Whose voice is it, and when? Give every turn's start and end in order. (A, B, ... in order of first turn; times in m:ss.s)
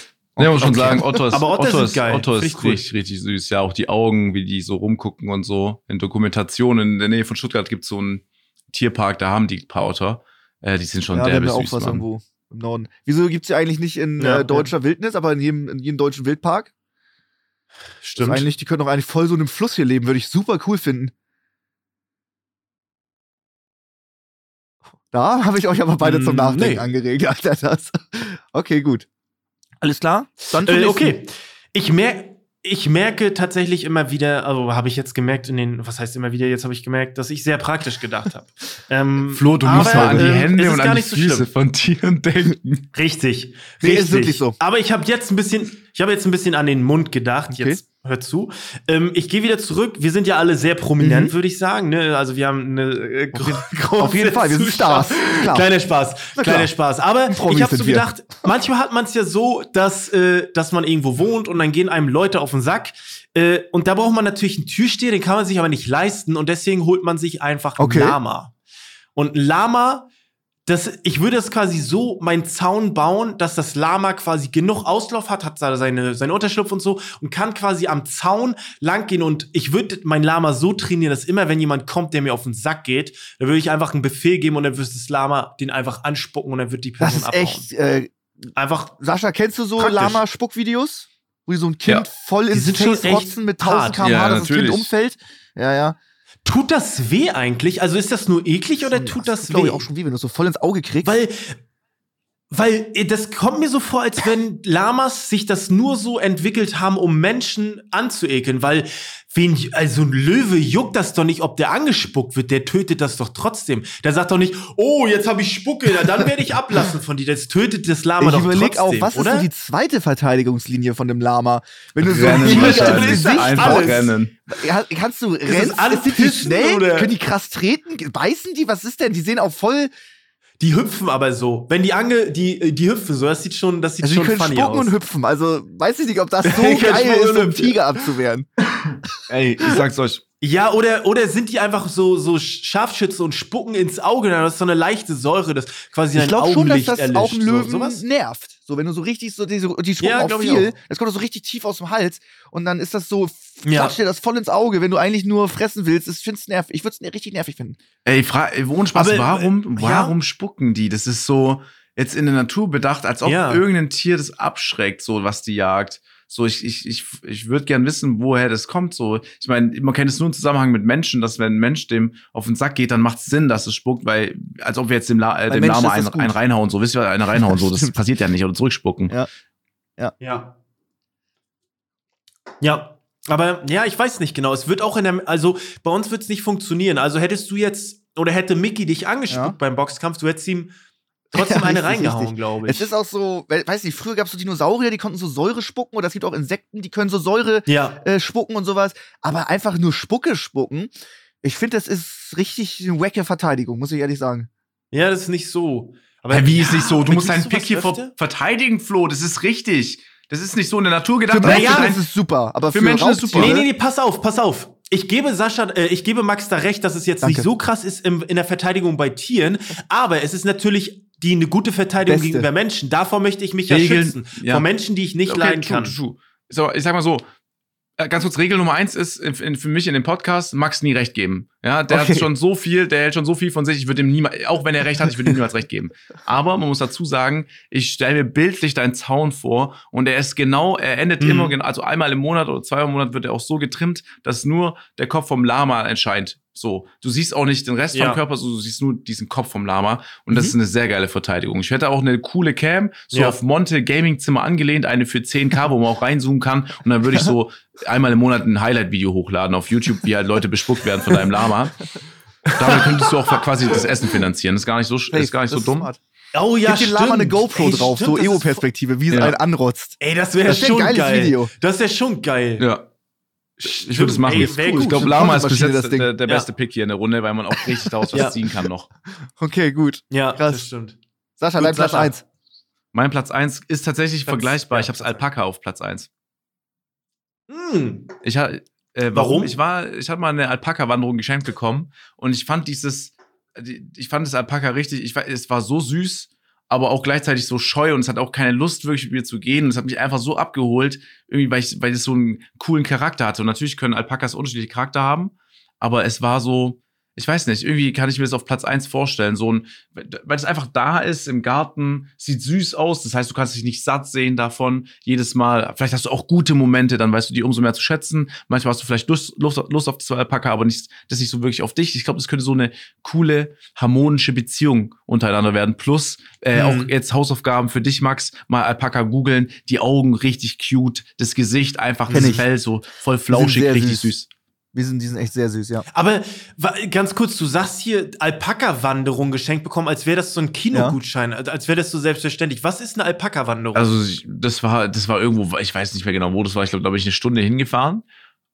0:00.4-0:01.2 A
0:00.4-0:12.0 B
0:00.6-0:02.8 C
0:11.1-0:16.7 A
0:14.2-0:14.7 C
0:18.0-0:18.5 C
0:18.2-0:21.1 A
0:25.1-0:29.1 A
0:26.0-0:26.9 C
0:29.8-0:31.2 A
0:30.6-0:41.5 C
0:39.3-0:42.9 B
0:39.7-0:40.4 A
0:42.9-1:08.5 C
0:43.8-0:44.6 A
0:47.5-0:47.8 A
0:51.0-0:51.3 A
0:53.3-0:55.7 A
0:56.4-0:56.7 A
0:57.3-0:58.1 A
1:07.8-1:08.2 A
1:09.2-1:10.1 C
1:10.7-1:27.7 C
1:27.0-1:28.1 A
1:28.6-1:29.0 C
1:29.0-1:36.0 A
1:29.8-1:30.2 C
1:32.5-1:34.0 C
1:34.0-1:34.9 B
1:36.4-1:39.9 C
1:38.9-1:41.1 A
1:41.0-1:41.6 C
1:42.5-1:59.5 C
1:58.2-2:09.9 A
2:02.0-2:04.3 B
2:02.2-2:04.1 C
2:05.5-2:07.1 C
2:10.6-2:14.9 C
2:14.0-2:18.5 A
2:16.4-2:17.9 C
2:19.3-2:20.2 B
2:20.4-2:28.0 C
2:26.2-2:37.8 A
2:30.0-2:30.7 C
2:33.6-2:34.0 C
2:38.0-2:59.2 B
2:38.9-2:40.1 C
2:43.2-2:43.6 C
2:55.5-2:56.4 A
2:57.4-2:57.9 A
3:00.2-3:00.5 C
3:02.6-3:10.7 C
3:09.3-3:09.6 A
3:11.3-3:12.9 C
3:11.3-3:20.9 A
3:17.7-3:18.0 C
3:21.4-3:24.5 A
3:24.9-3:28.1 C
3:26.3-3:32.0 B
3:31.3-3:33.7 A
3:31.4-3:31.9 C
3:32.7-3:33.6 B
3:33.3-3:46.0 C
3:37.2-3:37.5 A
3:42.1-3:42.5 A
3:43.7-3:44.7 B
3:45.3-3:47.2 B
3:48.0-4:21.8 B
3:51.9-3:52.3 A
4:01.2-4:01.5 C
4:07.9-4:08.2 C
4:22.5-4:23.1 C
4:22.5-4:25.9 B
4:25.1-4:26.0 A
4:26.3-4:28.6 C
4:26.7-4:31.5 A
4:29.1-4:29.4 B
4:30.0-4:32.7 C
4:32.6-4:32.8 B
4:33.6-4:38.9 B
4:33.6-4:35.2 C
4:34.4-4:36.1 A
4:38.0-4:38.3 A
4:39.4-4:40.7 A
4:40.1-4:41.0 C
4:41.4-4:42.2 A
4:41.6-4:42.1 C
4:42.9-4:46.1 B
4:44.3-4:45.2 C
4:47.5-4:48.1 C
4:48.2-5:34.3 B
4:49.2-4:49.6 C
5:26.5-5:26.9 C
5:32.1-5:32.4 C
5:32.1-5:32.4 A
5:33.3-5:34.1 A
5:34.7-5:35.9 A
5:35.9-5:43.9 C
5:40.7-5:41.0 A
5:43.8-5:48.0 B